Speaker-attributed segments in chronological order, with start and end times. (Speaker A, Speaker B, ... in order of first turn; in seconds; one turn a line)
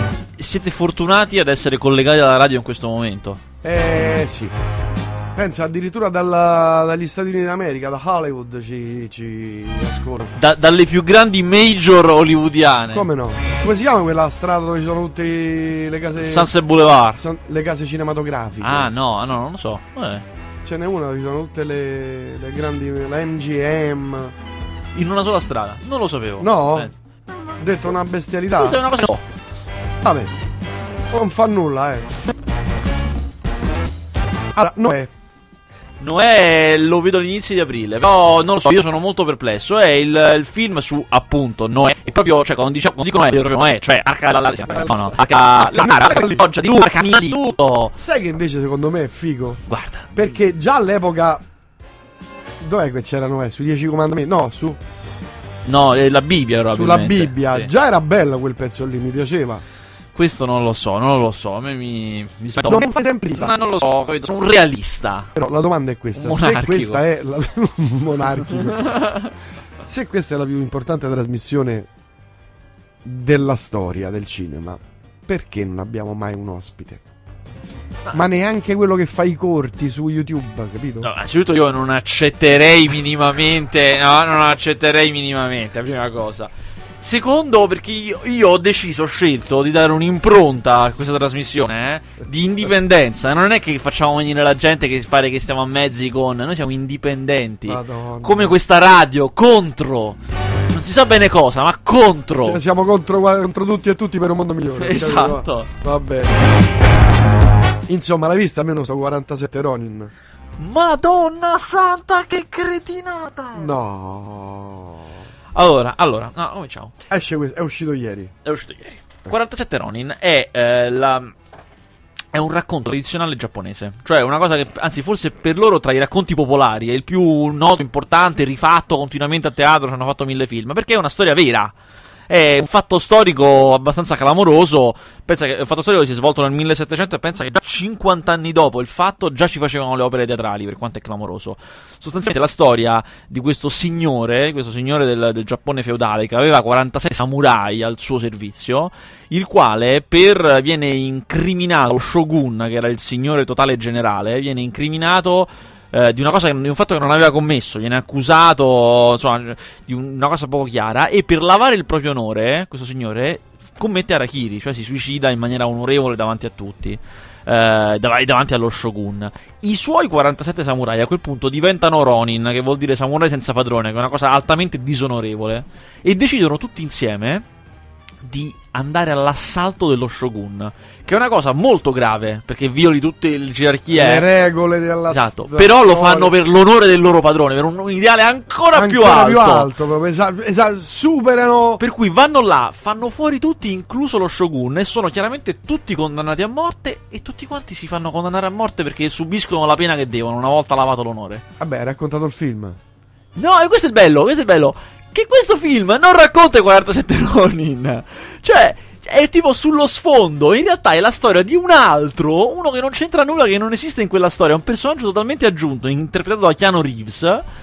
Speaker A: 0.4-3.4
Speaker B: 3.6-4.5
Speaker B: 5.3-10.3
Speaker A: 10.4-13.1
Speaker B: 12.9-16.5
Speaker A: 16.2-17.2
Speaker B: 17.1-18.9
Speaker A: 18.6-20.2
Speaker B: 20.6-24.3
Speaker A: 24.9-26.9
Speaker B: 26.4-26.9
Speaker B: 27.6-28.8
Speaker A: 28.6-29.2
Speaker B: 30.0-30.3
Speaker B: 31.1-32.1
Speaker B: 34.5-35.1
Speaker A: 36.0-48.0
Speaker B: 44.7-46.5
Speaker B: 48.0-49.6
Speaker A: 49.7-50.1
Speaker B: 50.1-51.4
Speaker B: 52.6-54.8
Speaker A: 55.7-57.7
Speaker B: 56.7-59.6
Speaker A: 60.1-65.3
Speaker B: 62.6-63.5
Speaker B: 65.4-69.0
Speaker A: 66.2-67.0
Speaker A: 68.8-69.3
Speaker B: 69.8-71.9
Speaker B: 73.0-77.0
Speaker B: 78.1-81.1
Speaker A: 81.0-86.5
Speaker A: 87.0-100.2
Speaker B: 97.7-98.5
Speaker A: 100.7-102.6
Speaker B: 102.3-106.3
Speaker A: 104.8-105.7
Speaker B: 107.9-110.1
Speaker A: 110.6-113.7
Speaker B: 113.5-115.1
Speaker A: 115.5-116.9
Speaker B: 117.1-118.3
Speaker A: 118.5-121.3
Speaker A: 122.3-131.7
Speaker A: 132.3-177.4
Speaker A: 178.2-184.3
Speaker B: 183.9-186.3
Speaker A: 185.1-189.7
Speaker B: 188.7-191.8
Speaker A: 191.8-201.4
Speaker B: 201.6-202.8
Speaker A: 203.4-217.4